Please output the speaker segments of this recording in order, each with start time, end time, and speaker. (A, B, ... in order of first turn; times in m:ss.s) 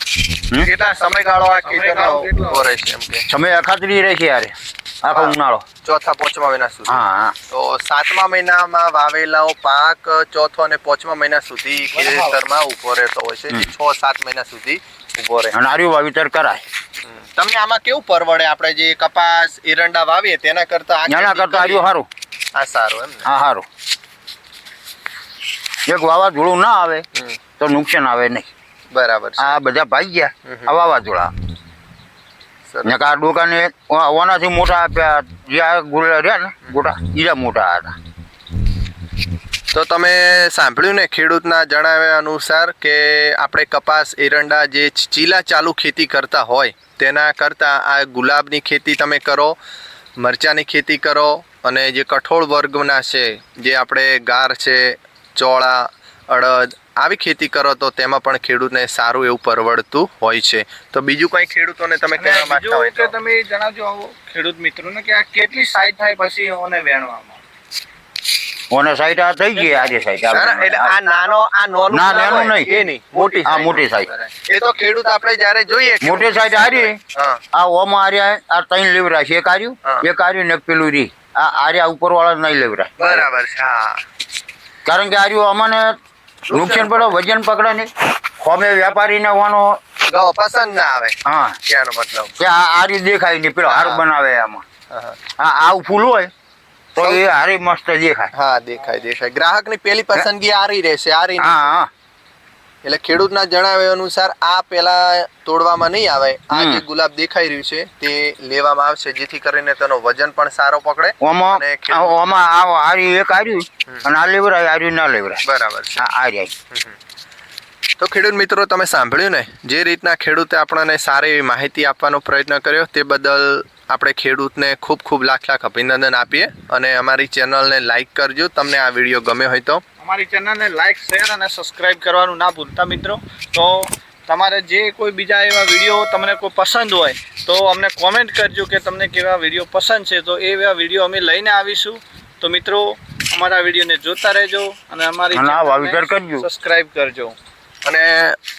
0:00.6-0:03.3 A
0:01.6-0:02.7 B
0:03.3-0:05.6 C
0:05.1-0:15.6 A
0:06.9-0:07.4 C
0:11.9-0:12.4 B
0:15.5-0:16.6 C
0:17.4-0:21.8 A
0:21.1-0:22.1 C
0:22.6-0:23.2 A
0:23.2-0:23.7 C
0:25.8-0:27.0 C
0:27.6-0:28.5 C
0:28.9-0:29.6 A
0:29.4-0:31.3 C
0:30.5-0:30.7 A
0:32.7-0:33.0 A
0:32.8-0:38.0 C
0:39.7-0:49.6 A
0:50.2-1:03.1 A
1:02.2-1:07.4 B
1:08.7-1:10.9 C
1:10.3-1:17.4 A
1:11.9-1:12.7 C
1:13.4-1:14.1 C
1:16.0-1:17.0 C
1:17.5-1:23.2 C
1:23.0-1:24.0 A
1:24.8-1:26.0 C
1:26.5-1:27.1 A
1:26.5-1:29.8 C
1:30.1-1:32.3 A
1:31.2-1:31.6 C
1:32.4-1:34.6 C
1:33.6-1:34.0 A
1:34.9-1:35.2 A
1:35.4-1:36.3 C
1:37.0-1:38.3 C
1:38.3-1:41.8 A
1:41.4-1:41.9 C
1:42.8-1:52.2 A
1:46.5-1:46.8 C
1:51.2-1:55.4 C
1:55.4-1:56.1 A
1:56.0-1:56.5 C
1:58.0-2:09.8 A
2:10.0-2:27.4 B
2:25.3-2:26.5 C
2:27.8-2:28.4 A